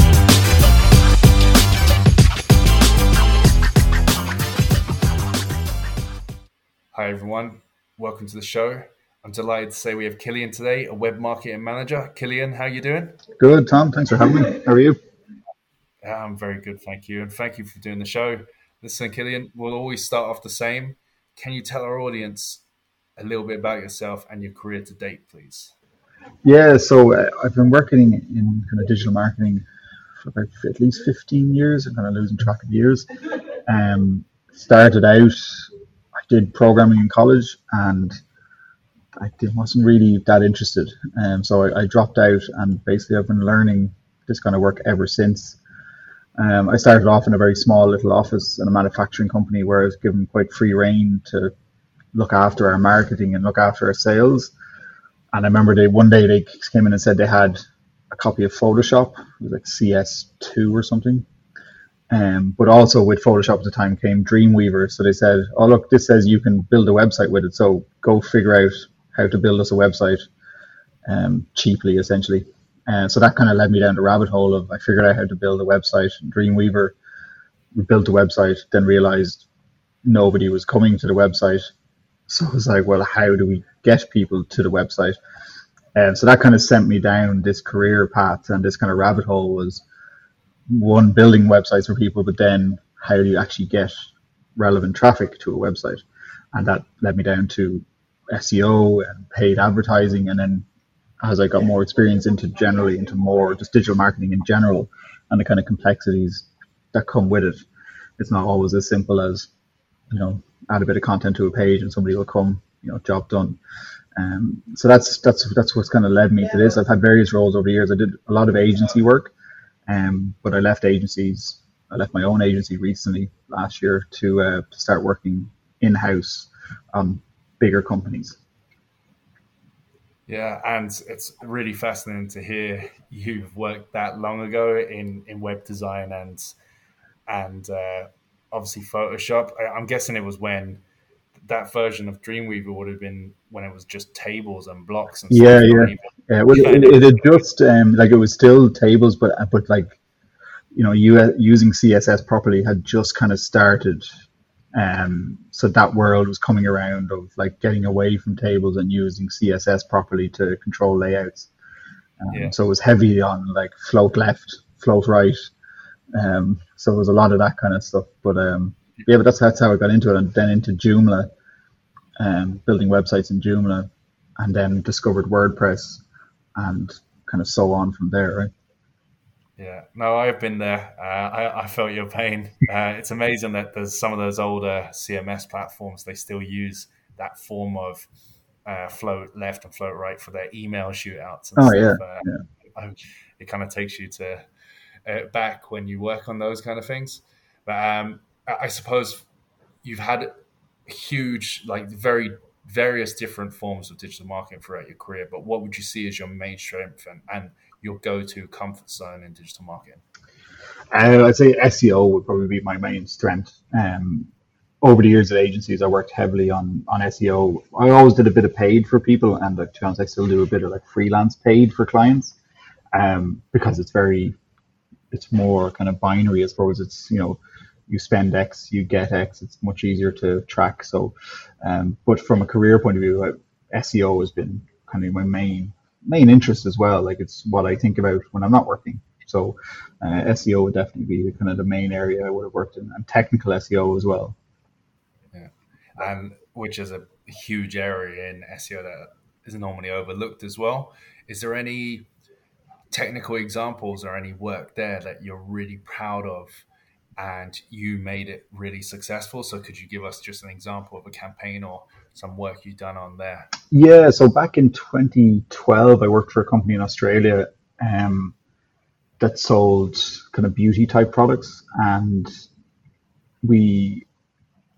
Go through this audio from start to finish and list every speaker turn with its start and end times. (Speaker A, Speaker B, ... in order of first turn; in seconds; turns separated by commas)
Speaker A: 6.9-13.2, Speaker B: 13.4-15.0, Speaker A: 16.0-22.6, Speaker A: 23.2-25.7, Speaker B: 26.4-29.6, Speaker B: 30.2-33.0, Speaker B: 33.6-38.1, Speaker B: 39.1-45.6, Speaker B: 46.4-51.5, Speaker B: 52.1-54.5, Speaker B: 55.3-57.6, Speaker B: 58.1-61.2, Speaker B: 62.1-70.2, Speaker B: 71.0-76.9, Speaker B: 77.7-79.5, Speaker B: 80.0-81.7, Speaker B: 82.3-85.2, Speaker B: 85.9-89.8, Speaker B: 90.7-93.9, Speaker B: 94.5-100.7, Speaker B: 101.2-107.6, Speaker B: 108.2-109.5, Speaker B: 110.1-113.6, Speaker B: 114.1-119.3, Speaker B: 119.9-128.4, Speaker A: 130.3-136.5, Speaker A: 137.3-140.8, Speaker A: 141.4-147.3, Speaker B: 145.3-150.0, Speaker B: 150.7-154.1, Speaker B: 154.7-161.5, Speaker B: 162.2-165.5, Speaker B: 166.1-171.3, Speaker B: 172.2-176.0, Speaker B: 176.5-178.5, Speaker A: 179.6-188.1, Speaker A: 188.6-194.4, Speaker B: 191.6-192.4, Speaker A: 195.1-199.2, Speaker A: 199.8-200.3, Speaker A: 200.9-210.0, Speaker B: 210.9-214.3, Speaker B: 214.8-222.3, Speaker B: 222.9-224.3, Speaker B: 225.1-244.3, Speaker A: 245.3-252.1, Speaker A: 252.9-256.6, Speaker A: 257.2-263.5, Speaker B: 263.7-268.3, Speaker B: 269.2-272.3, Speaker B: 273.4-274.1